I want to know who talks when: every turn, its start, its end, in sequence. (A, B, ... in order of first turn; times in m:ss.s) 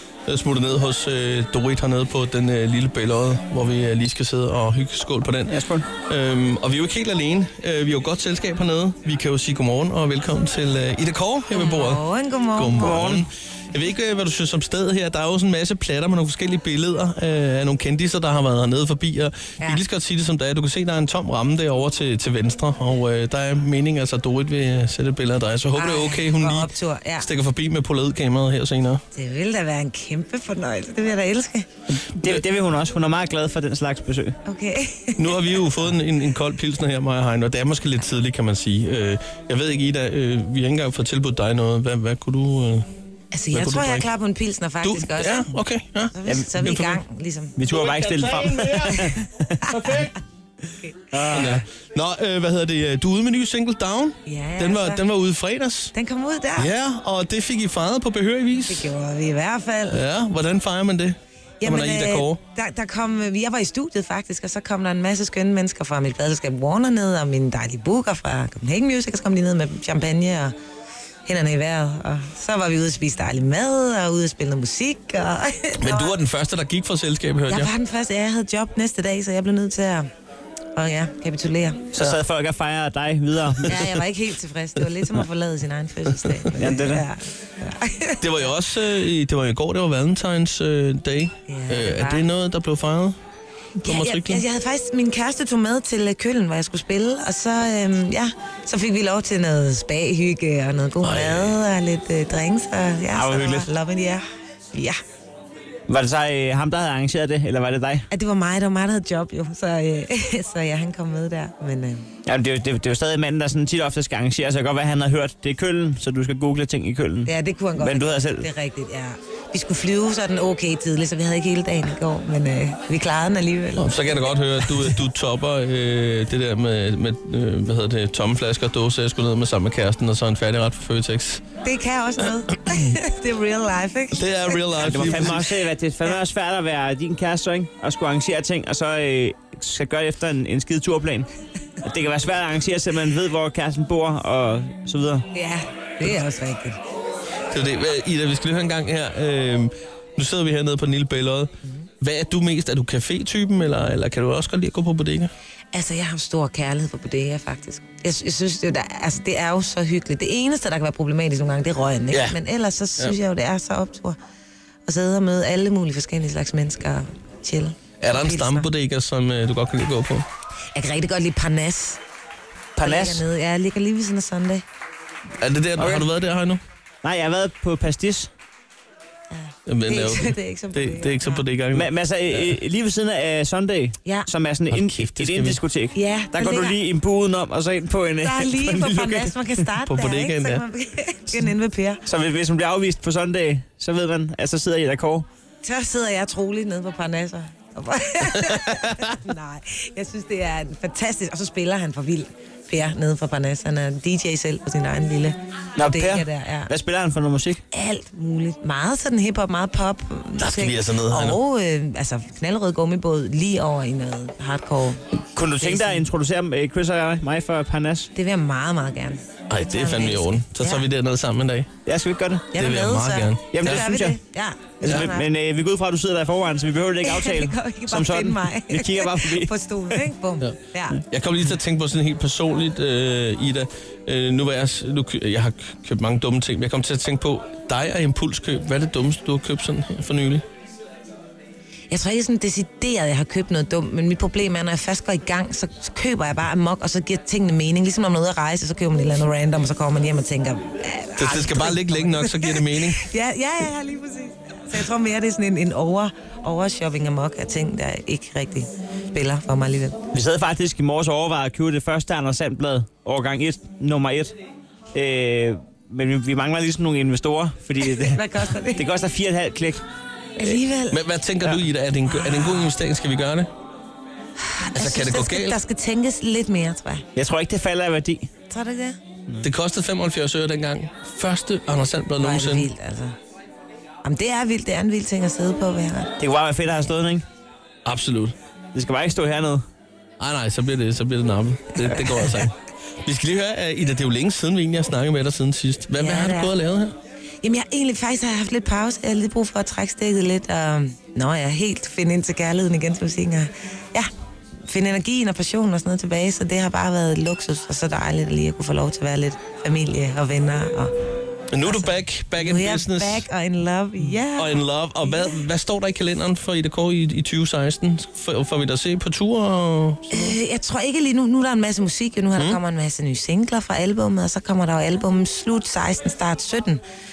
0:00.3-0:12.0 A
0:05.5-0:05.9 B
0:11.5-0:13.0 C
0:12.5-0:29.0 A
0:12.8-0:13.3 B
0:25.7-0:27.3 C
0:29.1-0:31.7 C
0:31.9-0:34.4 B
0:34.4-0:35.3 C
0:35.2-0:42.8 A
0:43.3-0:45.6 C
0:43.5-0:44.1 A
0:44.8-0:47.0 A
0:46.1-0:47.6 C
0:47.6-0:50.1 B
0:47.7-0:50.1 A
0:51.1-0:51.6 B
0:51.2-0:55.9 A
0:54.2-0:55.0 C
0:55.9-0:56.7 C
0:56.6-0:58.9 A
0:58.6-1:00.0 C
0:59.9-1:02.4 A
1:01.6-1:10.5 C
1:11.2-1:16.1 C
1:15.8-1:17.7 A
1:17.5-1:20.1 C
1:20.7-1:21.8 C
1:21.9-1:23.9 B
1:23.6-1:23.9 A
1:23.6-1:28.5 C
1:26.1-1:26.7 A
1:26.6-1:27.0 B
1:28.2-1:33.2 A
1:31.5-1:32.3 C
1:33.8-1:34.4 A
1:33.8-1:45.0 C
1:41.0-1:41.6 A
1:43.1-1:43.7 B
1:45.9-1:48.1 B
1:48.1-1:52.1 C
1:52.2-1:58.5 B
1:57.2-2:04.1 C
2:03.8-2:11.4 A
2:11.6-2:15.4 C
2:12.7-2:12.9 A
2:14.1-2:15.5 A
2:14.8-2:21.3 B
2:21.8-2:25.3 B
2:25.3-2:26.8 C
2:27.5-2:35.3 A
2:35.7-2:44.2 C
2:42.1-2:42.4 A
2:44.8-2:48.7 C
2:48.0-2:50.2 A
2:50.7-2:52.0 C
2:52.8-2:53.2 B
2:52.8-2:54.6 C
2:55.4-2:56.6 A
2:55.8-2:56.1 B
2:57.0-2:58.3 B
2:59.3-3:01.4 C
2:59.6-3:02.6 A
3:01.7-3:09.6 B
3:04.7-3:05.6 A
3:05.9-3:06.8 C
3:08.2-3:12.0 C
3:09.8-3:10.6 A
3:12.0-3:15.2 B
3:15.6-3:26.7 C
3:18.5-3:19.0 A
3:25.8-3:27.6 B
3:27.7-3:35.0 C
3:30.4-3:31.4 A
3:35.3-3:38.1 B
3:35.6-3:36.1 C
3:38.1-3:40.9 C
3:39.5-3:41.7 A
3:41.8-3:42.5 B
3:42.5-3:45.3 C
3:42.5-3:43.9 A
3:43.5-3:44.2 B
3:44.8-3:50.1 B
3:47.0-3:51.0 C
3:51.1-4:00.4 A
4:01.9-4:20.0 C
4:11.2-4:13.1 A
4:20.1-4:24.3 B
4:24.9-4:28.2 B
4:28.0-4:28.8 C
4:28.7-4:29.8 B
4:30.4-4:31.0 C
4:30.9-4:33.5 A
4:32.2-4:32.7 C
4:34.5-4:37.0 C
4:34.7-4:35.6 A
4:37.1-4:38.3 B
4:38.5-4:39.0 C
4:39.4-4:42.7 A
4:42.2-4:43.2 C
4:44.0-4:46.1 C
4:46.2-4:47.2 B
4:47.8-4:48.3 A
4:48.7-4:49.6 B
4:50.2-4:56.9 A
4:56.0-4:56.6 C
4:57.4-5:04.1 C
5:04.6-5:10.9 C
5:11.5-5:13.2 A
5:11.6-5:15.3 C
5:14.4-5:20.4 A
5:20.1-5:26.8 C
5:22.4-5:22.6 A